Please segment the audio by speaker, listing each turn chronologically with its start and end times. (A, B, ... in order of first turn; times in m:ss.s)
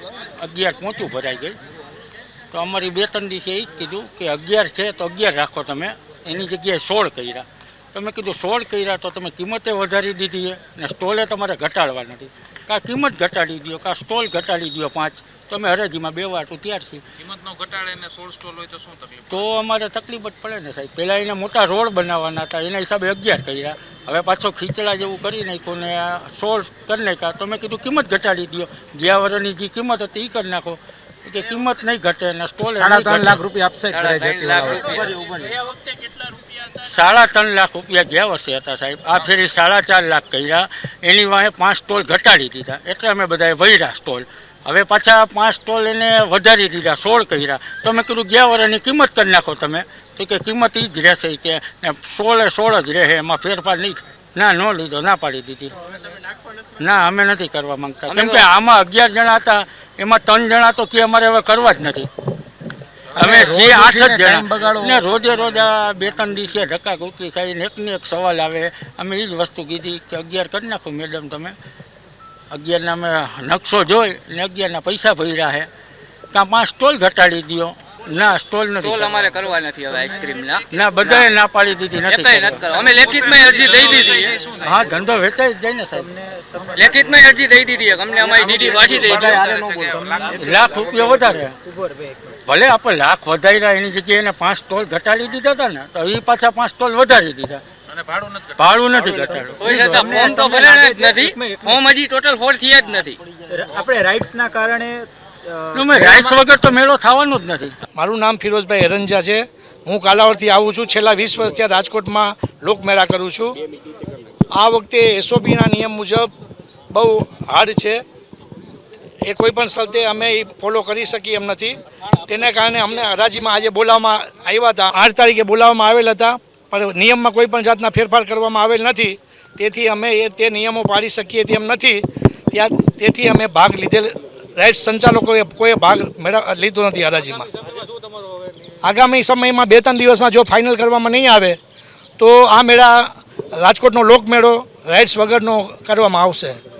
0:00.4-0:01.6 A
0:02.5-0:17.0 A
0:17.3-0:19.3 B
0:19.3-0:33.4 A
0:32.7-0:35.6 C
0:33.9-0:35.1 D
0:36.8-0:55.7 A
0:56.8-1:02.1 A
0:58.1-0:58.5 D
1:03.1-1:11.6 A
1:03.2-1:05.1 C
1:12.5-1:15.7 A
1:16.3-1:19.4 A
1:18.8-1:21.3 D
1:20.7-1:22.9 A
1:22.0-1:24.3 D
1:23.0-1:24.6 B
1:24.0-1:24.8 C
1:24.4-1:26.1 A
1:25.9-1:27.6 C
1:26.8-1:29.3 D
1:28.1-1:32.4 C
1:29.3-1:30.3 B
1:30.3-1:31.6 A
1:32.5-1:37.6 A
1:38.2-1:39.8 A
1:39.0-1:41.8 C
1:39.6-1:43.2 D
1:43.5-1:46.4 C
1:45.7-1:47.8 A
1:48.0-1:53.6 E
1:54.6-1:56.3 E
1:56.9-1:58.0 E
1:59.2-2:17.5 E
2:17.7-2:18.7 B
2:18.8-2:21.6 E
2:22.2-2:26.6 E